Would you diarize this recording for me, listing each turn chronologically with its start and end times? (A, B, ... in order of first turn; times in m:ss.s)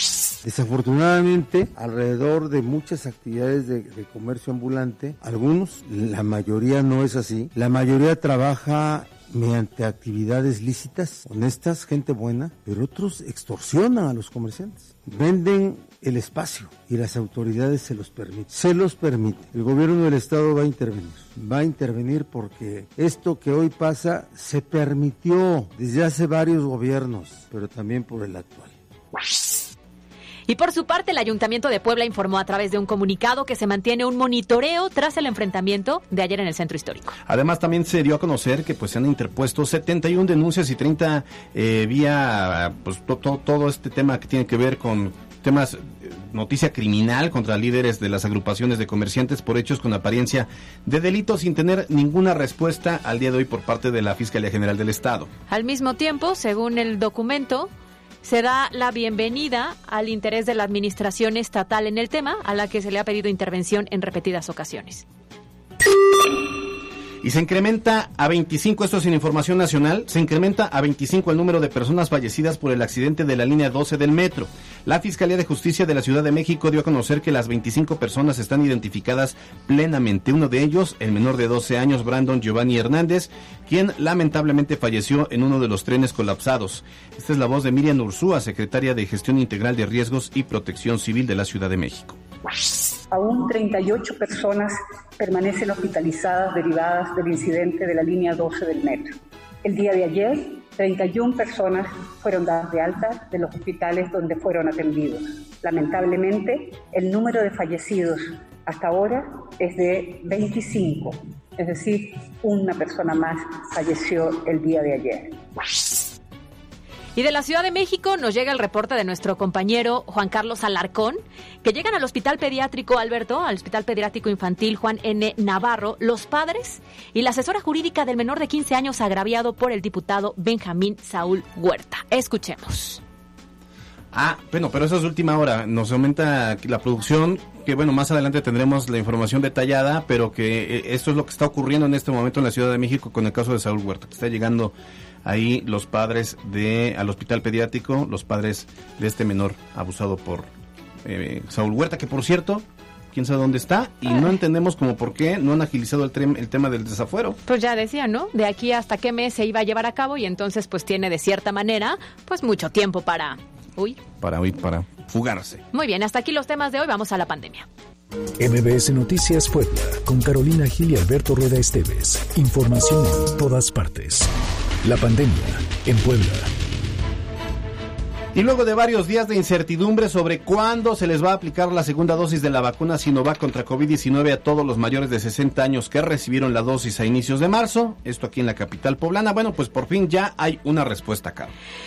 0:00.4-0:28.8 A
0:30.5-0:37.2 B
0:37.3-0:55.3 C
0:55.5-0:57.7 B
0:58.2-1:05.0 B
1:07.2-1:32.2 C
1:33.1-1:55.4 D
1:57.2-2:13.0 B
2:14.1-2:30.5 C
2:31.0-2:37.4 C
2:37.5-2:44.0 B
2:44.2-2:45.6 C
2:45.7-2:47.7 B
2:48.4-2:54.3 E
2:54.8-2:56.5 E
2:58.3-3:11.5 C